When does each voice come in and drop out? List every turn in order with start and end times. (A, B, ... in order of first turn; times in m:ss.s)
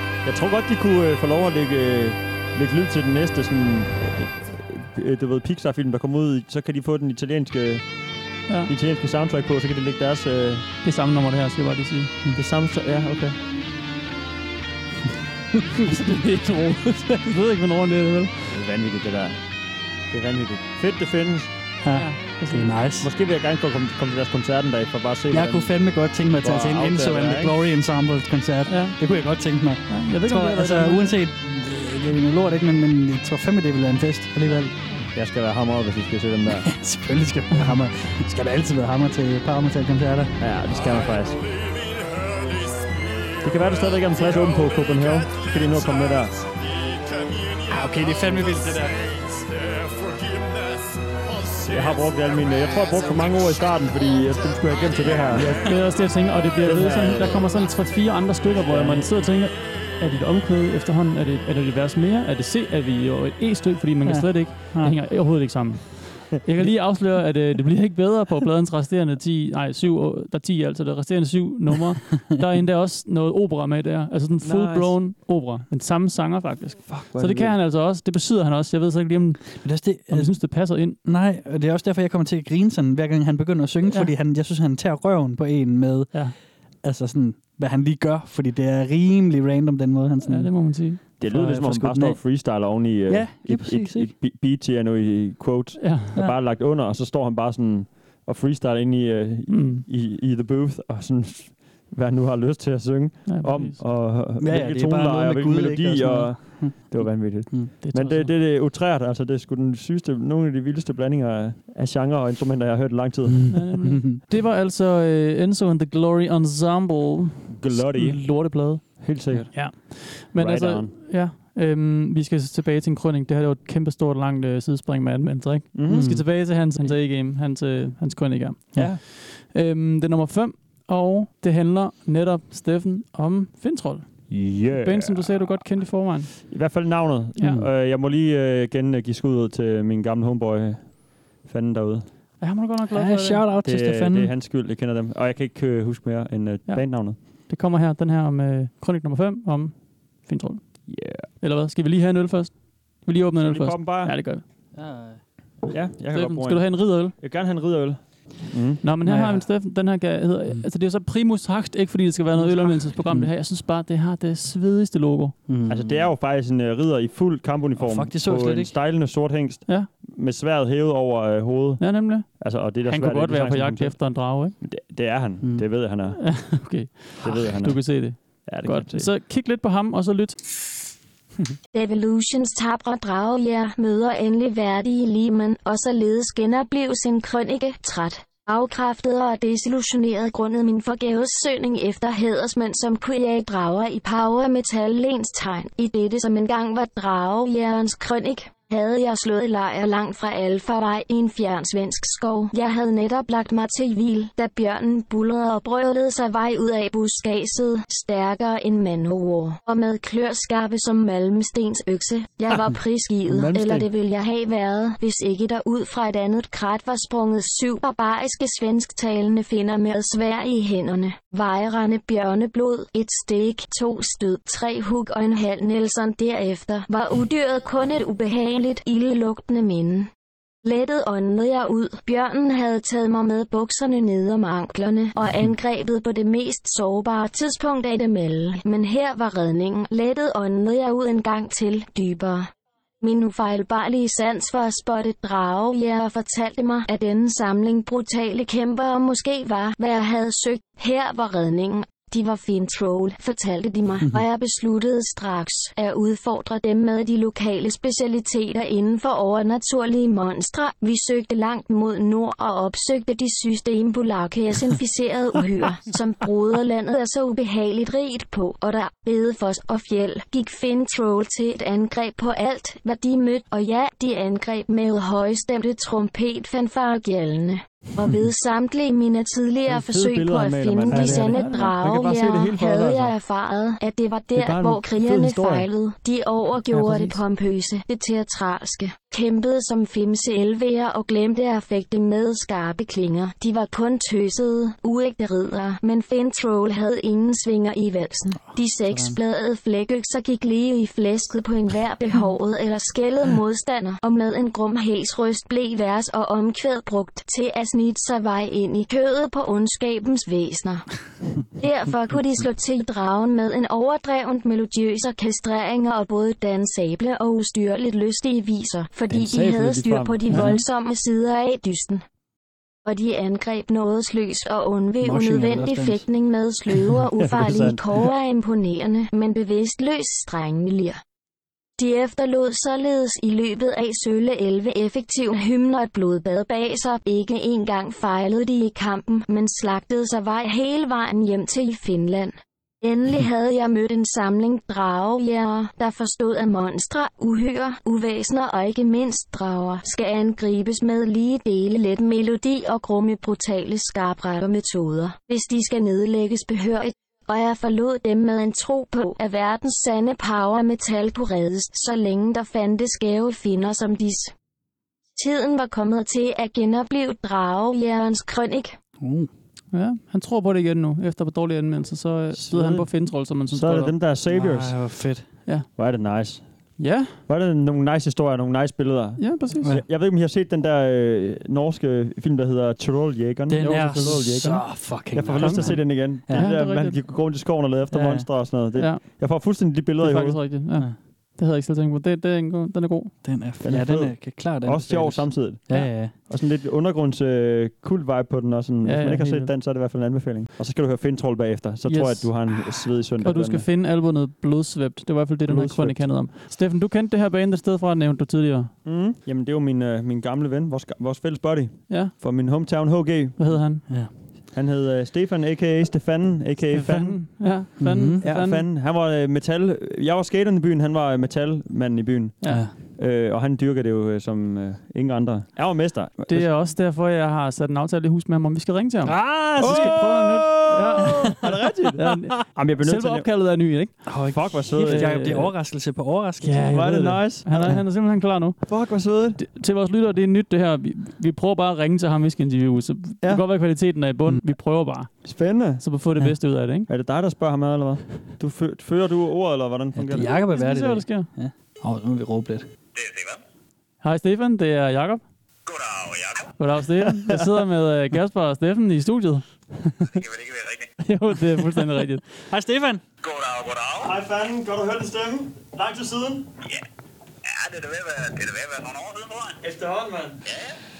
0:00.2-0:07.8 A
0:08.7-0:10.6 A
0:10.8-0:12.1 B
0:12.3-0:13.4 A
0:15.8-0:18.5 B
0:18.5-0:19.4 A
0:20.1-0:21.5 A
0:21.8-0:23.1 C
0:21.9-0:22.7 B
0:23.0-0:25.8 A
0:25.3-0:34.7 C
0:26.4-0:27.5 A
0:28.7-0:29.0 B
0:29.9-0:31.2 B
0:35.1-0:36.7 A
0:36.5-0:40.3 C
0:40.4-0:41.4 A
0:40.6-0:58.6 D
0:43.4-0:46.3 A
0:47.7-0:48.9 C
0:51.7-0:55.7 A
0:55.4-0:55.7 C
0:55.6-1:21.0 B
0:56.6-0:57.4 A
0:58.7-0:59.1 A
0:59.2-1:00.0 D
1:04.0-1:05.0 C
1:14.4-1:14.9 A
1:16.8-1:17.5 A
1:19.6-1:20.5 C
1:21.0-1:32.2 C
1:23.9-1:24.1 B
1:30.2-1:31.0 B
1:31.2-1:53.6 A
1:33.1-1:34.1 C
1:35.8-1:36.1 B
1:39.5-1:39.8 B
1:43.3-1:43.8 B
1:44.4-1:47.7 C
1:47.8-1:48.3 B
1:53.3-1:54.2 C
1:53.5-2:16.4 B
1:57.5-2:00.9 A
2:05.7-2:06.2 A
2:05.9-2:06.2 C
2:08.8-2:09.0 A
2:14.3-2:15.6 A
2:16.4-2:22.1 A
2:17.4-2:17.6 B
2:17.4-2:17.7 C
2:22.4-2:23.4 B
2:22.9-2:24.3 C
2:23.6-2:27.2 A
2:26.7-2:30.6 B
2:30.9-2:31.3 A
2:31.4-2:34.4 B
2:33.4-2:34.2 A
2:34.7-2:35.2 C
2:35.7-2:38.8 A
2:36.1-2:37.1 B
2:38.8-2:45.4 B
2:39.0-2:39.5 C
2:42.4-2:43.3 C
2:45.5-2:46.1 C
2:45.7-2:56.2 A
2:47.8-2:48.7 C
2:51.8-2:54.6 B
2:56.2-3:00.4 B
2:57.2-2:59.1 A
3:01.7-3:50.1 E
3:33.3-3:33.8 A
3:50.6-5:10.9 E
4:39.7-4:43.1 A
4:40.9-4:41.6 C
4:44.3-4:45.7 A
4:46.7-4:47.2 C
4:58.9-4:59.2 C
5:11.4-5:22.0 E
5:19.1-5:20.6 A
5:22.8-5:31.0 E
5:25.0-5:26.0 C
5:27.2-5:28.1 A
5:31.8-6:04.3 E
6:05.2-6:08.8 E
6:09.0-6:09.3 C
6:09.7-6:14.0 B
6:12.3-6:12.9 A
6:13.5-6:14.8 A
6:14.3-6:15.3 C
6:15.8-6:16.4 A
6:16.8-6:17.2 B
6:17.3-6:30.4 A
6:19.2-6:19.7 B
6:19.5-6:19.8 C
6:23.5-6:26.5 C
6:23.6-6:24.6 B
6:25.4-6:27.0 B
6:27.9-6:28.3 C
6:28.7-6:29.0 B
6:30.0-6:33.2 B
6:33.2-6:36.1 C
6:33.6-6:43.6 A
6:38.8-6:39.5 B
6:41.9-6:48.7 B
6:45.5-6:46.0 A
6:48.8-6:53.4 A
6:51.9-6:52.1 B
6:53.4-6:53.8 B
6:54.5-6:57.6 A
6:56.7-6:58.6 B
6:57.8-6:58.2 C
6:58.2-7:06.5 A
7:02.4-7:02.6 B
7:02.4-7:02.7 C
7:06.3-7:14.1 B
7:09.0-7:10.2 C
7:09.2-7:13.2 A
7:11.0-7:11.4 C
7:14.0-7:17.2 C
7:14.3-7:15.2 A
7:14.8-7:15.5 B
7:16.4-7:18.6 B
7:16.7-7:17.8 A
7:18.7-7:19.4 A
7:19.4-7:25.1 B
7:25.2-7:25.8 A
7:25.8-7:26.9 B
7:26.9-7:30.3 A
7:29.9-7:32.7 C
7:30.4-7:31.3 B
7:32.9-7:33.4 F
7:34.0-7:35.2 B
7:35.6-7:36.6 F
7:36.6-7:40.2 B
7:40.0-7:40.9 F
7:41.0-7:42.3 B
7:42.5-7:43.0 C
7:43.2-7:44.2 F
7:44.0-7:46.5 A
7:47.4-7:49.6 F
7:49.6-7:50.4 A
7:50.4-7:50.8 F